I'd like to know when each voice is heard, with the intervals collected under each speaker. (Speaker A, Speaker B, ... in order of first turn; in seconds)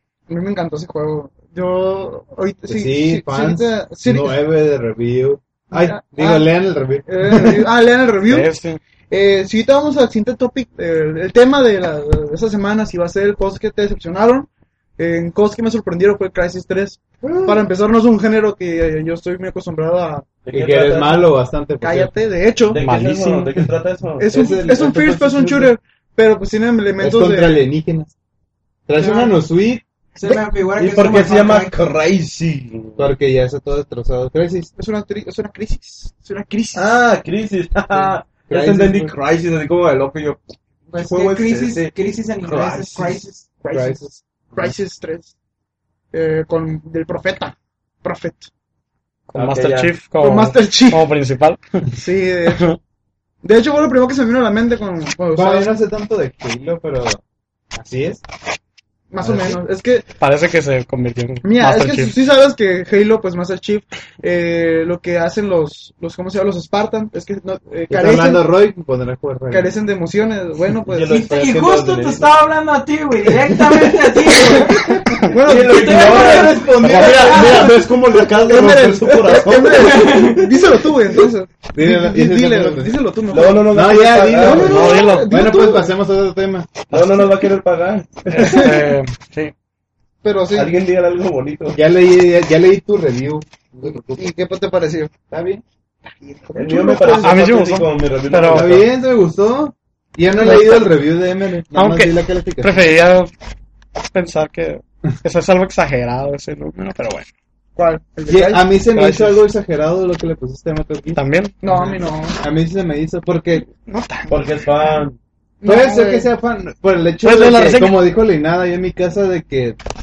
Speaker A: 0.3-4.4, 5.7-6.5, 7.0-8.5, 9.1-20.3, 21.8-22.8, 24.2-27.6, 34.8-36.9, 43.6-45.3, 46.1-48.5, 50.2-51.1, 51.9-52.8, 53.4-55.7, 59.1-60.1, 61.4-68.5, 69.5-71.1, 74.4-85.9, 88.3-88.9, 90.2-90.7, 94.2-95.1, 96.1-97.5, 100.5-100.7, 107.8-108.8, 111.6-112.4, 115.6-116.3
Speaker B: 2.7-7.7, 20.5-22.1, 24.3-25.7, 27.0-28.1, 28.9-29.8, 33.0-34.7, 38.5-39.1, 43.7-44.0, 55.3-57.2, 57.7-58.2, 59.2-59.6, 67.9-69.7, 76.8-77.4, 81.7-83.0, 83.7-86.8, 91.7-94.3, 95.3-95.6, 98.5-102.9, 108.3-111.2, 112.4-113.7, 115.6-119.8
Speaker C: 8.2-8.8, 22.8-23.7, 49.3-51.9, 52.5-52.8, 60.2-62.1, 75.0-75.3, 76.8-77.7, 84.6-85.3, 88.3-89.5, 97.2-98.7, 101.7-103.3, 104.0-107.3, 109.0-109.3, 111.1-111.5, 113.7-114.4, 117.2-118.0
Speaker D: 17.2-17.6, 20.4-21.3, 22.7-24.6, 30.8-33.0, 36.7-40.4, 41.0-43.2, 49.3-49.9, 70.9-72.3, 75.4-81.3, 83.3-84.7, 86.9-88.6, 90.5-91.8, 96.5-98.9, 114.3-115.2
Speaker E: 29.0-29.3, 30.1-31.8, 40.9-43.4, 71.1-74.8, 75.7-76.7, 79.7-80.4